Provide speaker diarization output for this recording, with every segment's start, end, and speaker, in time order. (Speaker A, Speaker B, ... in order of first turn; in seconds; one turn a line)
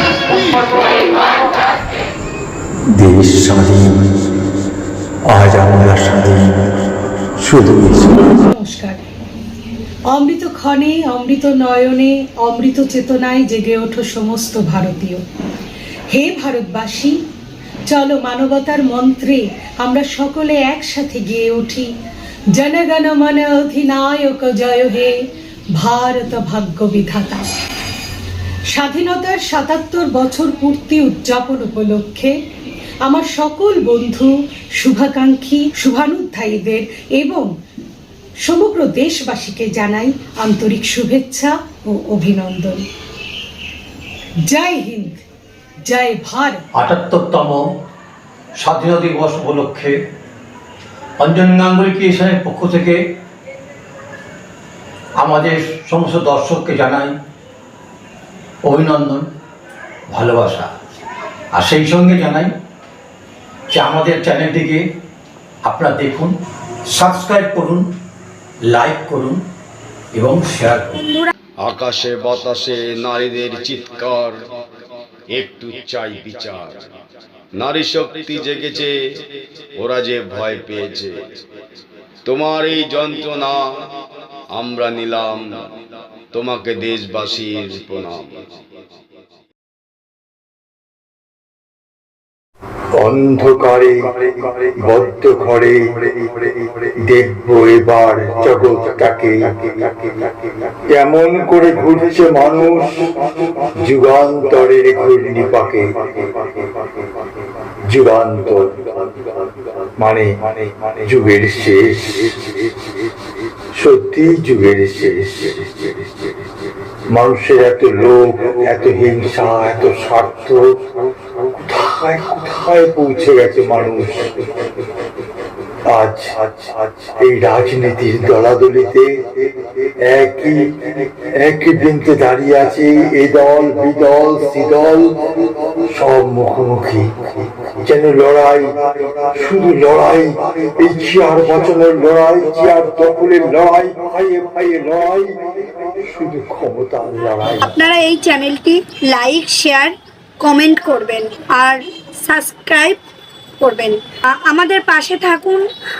Speaker A: 2.9-4.1
Speaker A: 5.3-6.6
Speaker A: 7.4-8.4
Speaker B: 8.3-9.0
Speaker B: 10.1-15.2
Speaker B: 16.1-17.2
Speaker B: 17.9-21.9
Speaker B: 22.6-25.1
Speaker B: 25.8-27.5
Speaker B: 28.7-32.3
Speaker B: 33.0-37.5
Speaker B: 38.4-42.9
Speaker B: 44.5-45.2
Speaker B: 45.9-46.6
Speaker C: 46.8-47.6
Speaker C: 48.6-50.0
Speaker C: 51.2-53.0
Speaker C: 55.2-57.1
Speaker C: 58.6-59.3
Speaker C: 60.1-60.7
Speaker C: 61.5-62.5
Speaker C: 63.7-64.8
Speaker C: 65.7-66.3
Speaker C: 66.9-67.9
Speaker C: 68.7-69.4
Speaker C: 70.2-71.0
Speaker D: 71.0-71.3
Speaker E: 71.6-74.4
Speaker E: 75.3-76.8
Speaker E: 77.6-78.9
Speaker E: 79.8-81.2
Speaker E: 82.2-83.6
Speaker E: 84.5-85.6
Speaker E: 86.3-88.6
Speaker A: 93.0-99.6
Speaker A: 100.9-103.1
Speaker A: 103.8-106.0
Speaker A: 107.9-108.8
Speaker A: 110.0-110.3
Speaker A: 111.0-112.3
Speaker A: 113.8-115.7
Speaker A: 117.1-120.8
Speaker A: 121.5-124.3
Speaker A: 125.9-129.2
Speaker A: 130.0-135.2
Speaker A: 135.9-137.1
Speaker A: 137.8-145.3
Speaker A: 146.0-147.8
Speaker D: 147.6-153.0
Speaker D: 153.6-155.7